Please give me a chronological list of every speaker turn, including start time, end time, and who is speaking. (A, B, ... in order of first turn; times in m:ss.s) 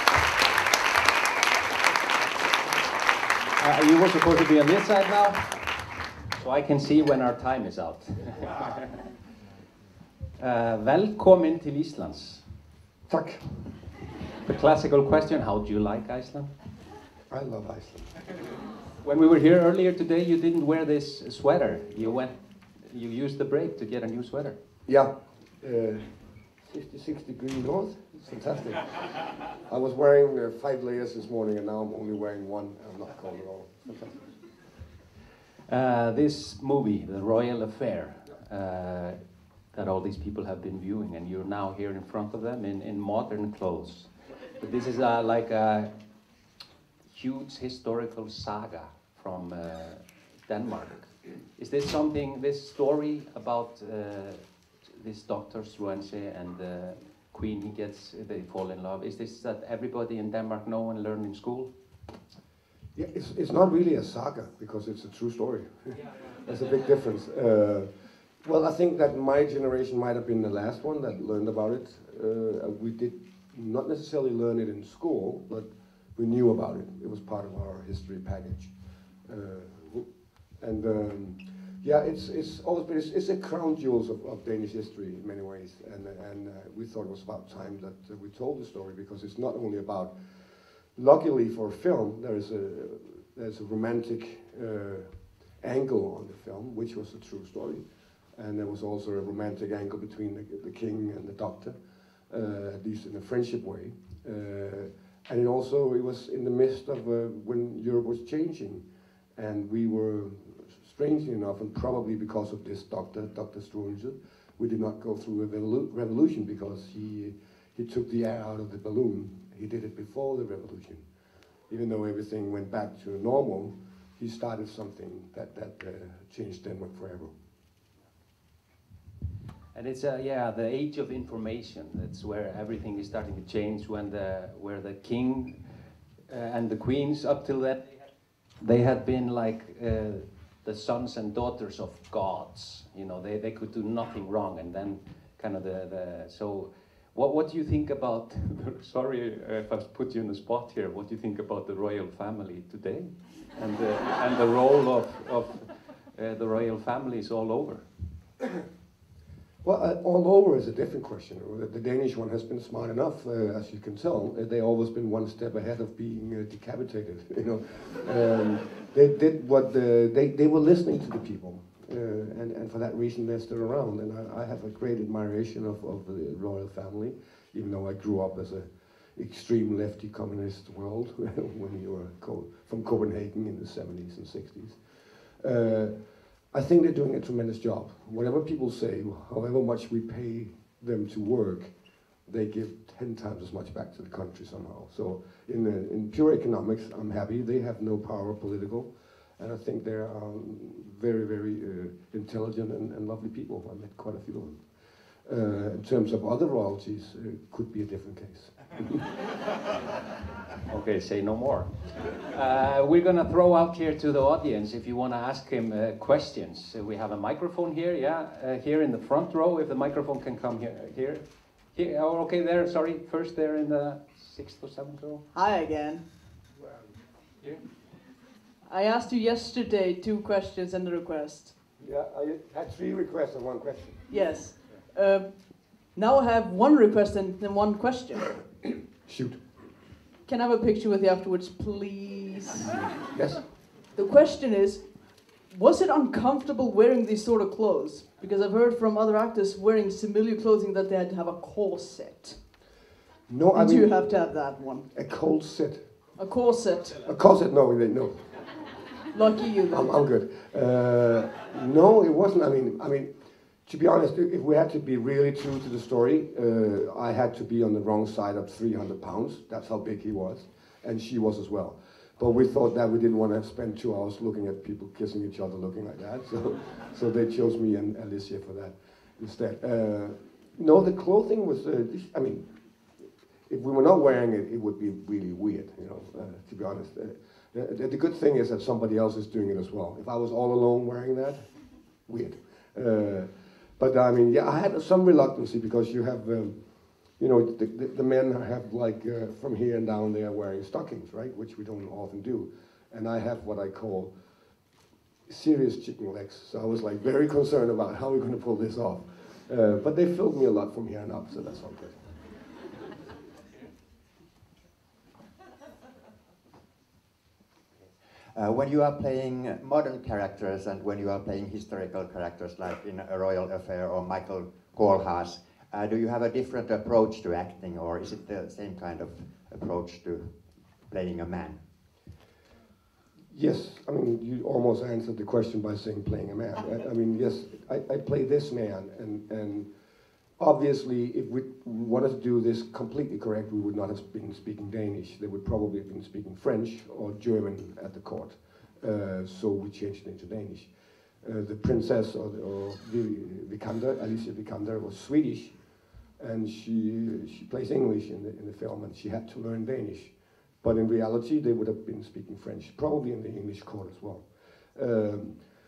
0:03.6-0:05.7 A
0:06.3-0:09.1 A
0:10.4-0:12.4 A
0:13.1-0:13.8 B
0:14.4-0:16.5 A
0:17.3-0:18.2 B
0:19.0-0:24.6 A
0:24.8-0:34.3 B
0:35.7-0:45.9 A
0:47.0-1:01.7 A
1:02.9-1:07.9 B
1:08.4-1:18.7 B
1:19.3-1:20.0 B
1:20.6-1:30.1 B
1:30.9-1:37.8 B
1:38.4-1:41.8 B
1:42.3-1:48.8 B
1:49.4-2:01.0 B
2:01.7-2:07.3 B
2:09.7-2:15.7 A
2:16.3-2:17.9 A
2:18.6-2:37.8 A
2:39.6-3:04.8 B
3:05.4-3:06.0 B
3:06.5-3:11.7 B
3:12.3-3:24.6 B
3:25.2-3:29.1 B
3:30.7-3:45.2 A
3:45.3-3:46.0 C
3:46.6-3:46.9 B
3:48.6-3:51.5 C
3:51.8-3:54.0 B
3:54.1-3:55.3 C
3:55.9-3:58.3 C
3:59.0-3:59.4 B
4:00.2-4:02.7 C
4:03.1-4:03.4 B
4:03.9-4:04.8 C
4:05.5-4:12.4 C
4:13.3-4:13.9 B
4:13.5-4:14.9 C
4:14.9-4:15.9 B
4:16.2-4:17.0 C
4:17.0-4:18.4 B
4:19.1-4:19.9 C
4:19.7-4:23.1 B
4:23.6-4:42.5 B
4:43.5-4:56.6 B
4:57.2-5:04.1 B
5:05.3-5:12.1 B
5:18.3-5:30.4 D
5:30.9-5:31.6 D
5:33.3-5:39.7 B
5:40.4-5:50.7 B
5:51.2-5:55.5 B
5:56.2-6:05.4 B